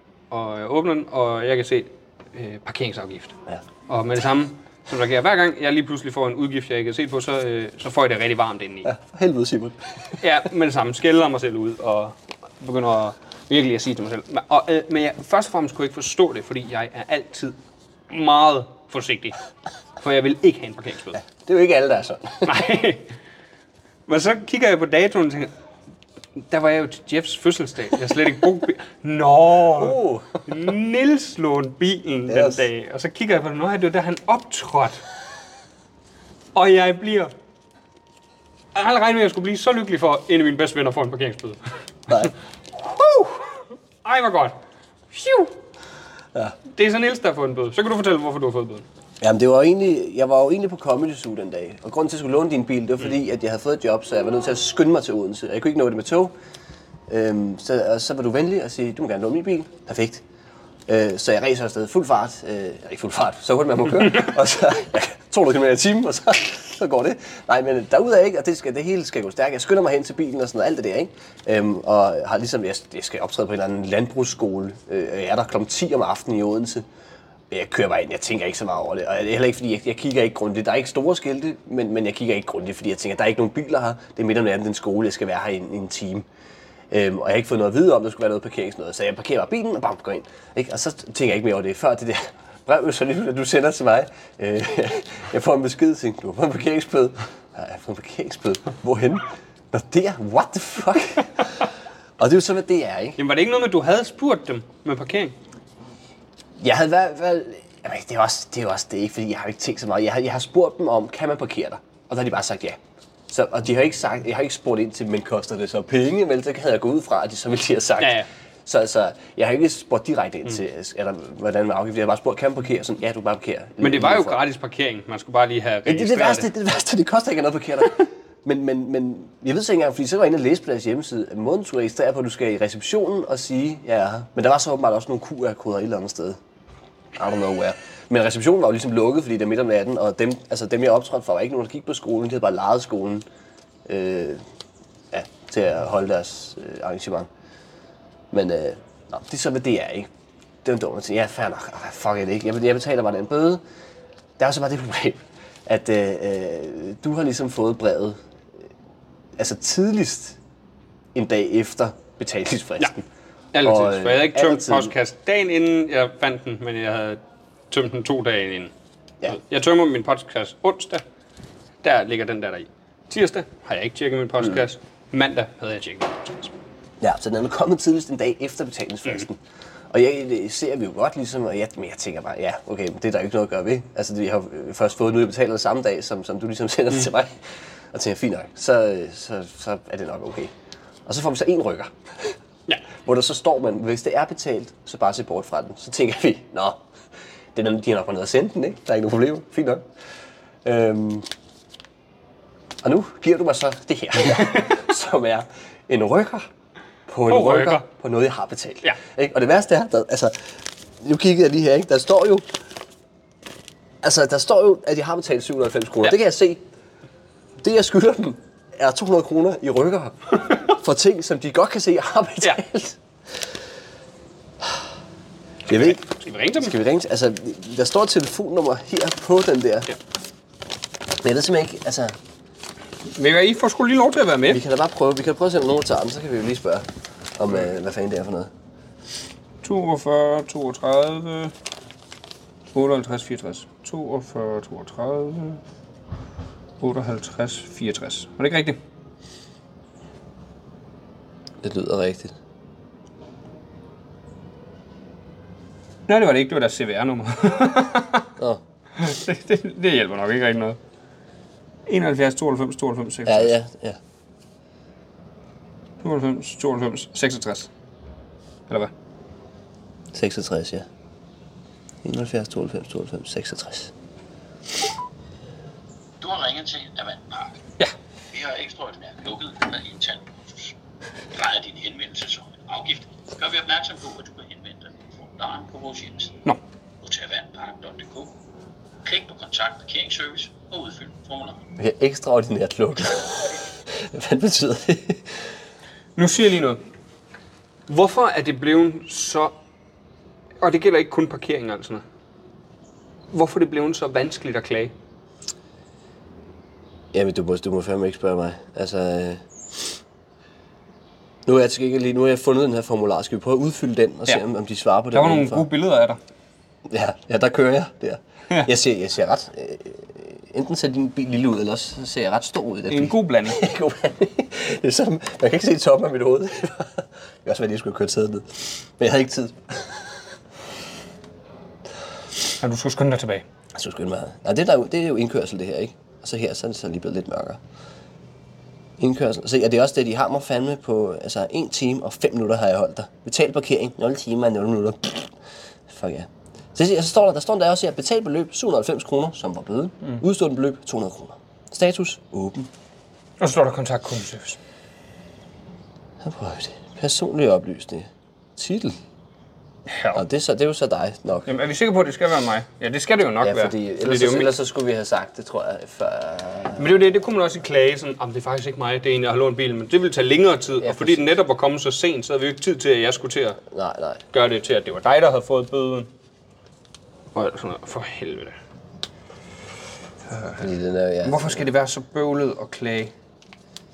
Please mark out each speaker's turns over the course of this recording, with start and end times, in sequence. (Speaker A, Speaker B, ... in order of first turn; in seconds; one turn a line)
Speaker A: 0.3-3.4
Speaker A: 3.9-8.9
Speaker B: 8.8-10.2
Speaker A: 10.2-17.6
Speaker A: 18.1-19.4
Speaker A: 20.0-21.2
Speaker B: 21.2-22.7
Speaker A: 22.4-23.1
Speaker A: 24.1-25.5
Speaker A: 26.4-35.0
Speaker B: 29.7-30.4
Speaker B: 32.3-32.6
Speaker A: 36.5-37.3
Speaker A: 38.8-42.3
Speaker A: 43.0-44.6
Speaker A: 45.1-45.5
Speaker A: 46.7-48.9
Speaker B: 49.2-56.3
Speaker B: 57.1-60.2
Speaker B: 60.9-76.9
Speaker B: 77.5-86.3
Speaker B: 86.9-103.2
Speaker A: 103.2-105.4
Speaker B: 106.6-112.8
Speaker B: 113.3-124.4
Speaker A: 118.0-118.3
Speaker A: 123.8-126.5
Speaker B: 125.9-136.4
Speaker B: 137.2-143.3
Speaker B: 143.9-144.4
Speaker B: 145.1-147.3
Speaker B: 148.3-150.1
Speaker B: 150.6-153.6
Speaker B: 154.4-158.2
Speaker B: 159.4-160.4
Speaker B: 161.2-163.1
Speaker A: 163.5-167.2
Speaker B: 163.6-164.9
Speaker A: 167.7-168.7
Speaker A: 169.3-171.0
Speaker A: 171.8-176.5
Speaker B: 177.0-179.4
Speaker B: 179.9-190.5
Speaker B: 191.1-192.3
Speaker B: 193.0-196.8
Speaker B: 197.6-199.8
Speaker B: 200.6-201.3
Speaker B: 202.8-206.5
Speaker A: 204.4-204.7
Speaker B: 207.1-212.5
Speaker A: 207.3-207.9
Speaker B: 214.0-216.6
Speaker B: 217.6-223.5
Speaker B: 225.7-226.0
Speaker A: 225.7-226.8
Speaker B: 226.6-229.9
Speaker B: 231.2-232.2
Speaker A: 233.1-234.6
Speaker B: 234.5-238.5
Speaker A: 239.6-241.5
Speaker A: 242.7-245.6
Speaker A: 246.8-248.8
Speaker B: 251.6-252.4
Speaker A: 256.1-258.3
Speaker A: 259.0-260.8
Speaker A: 261.9-263.5
Speaker B: 263.3-264.0
Speaker A: 266.0-267.7
Speaker B: 270.1-270.9
Speaker B: 272.0-273.9
Speaker C: 276.2-277.6
Speaker C: 278.3-280.8
Speaker C: 281.3-286.4
Speaker C: 287.0-288.3
Speaker C: 289.0-291.7
Speaker B: 291.8-295.4
Speaker A: 296.2-296.8
Speaker A: 297.9-299.5
Speaker A: 300.6-302.0
Speaker A: 303.3-304.9
Speaker B: 307.1-310.0
Speaker B: 311.5-315.7
Speaker A: 315.1-316.2
Speaker B: 316.9-330.2
Speaker A: 322.9-323.6
Speaker A: 332.6-333.4
Speaker B: 333.8-337.6
Speaker B: 339.0-345.3
Speaker B: 345.9-352.7
Speaker A: 353.4-354.6
Speaker B: 356.2-359.0
Speaker A: 359.9-360.2
Speaker B: 360.1-361.5
Speaker A: 361.5-364.5
Speaker B: 363.4-366.9
Speaker A: 366.8-373.6
Speaker B: 370.8-371.3
Speaker B: 373.7-374.2
Speaker A: 374.3-376.1
Speaker A: 377.3-378.6
Speaker A: 380.3-380.6
Speaker B: 380.6-381.7
Speaker A: 381.2-383.1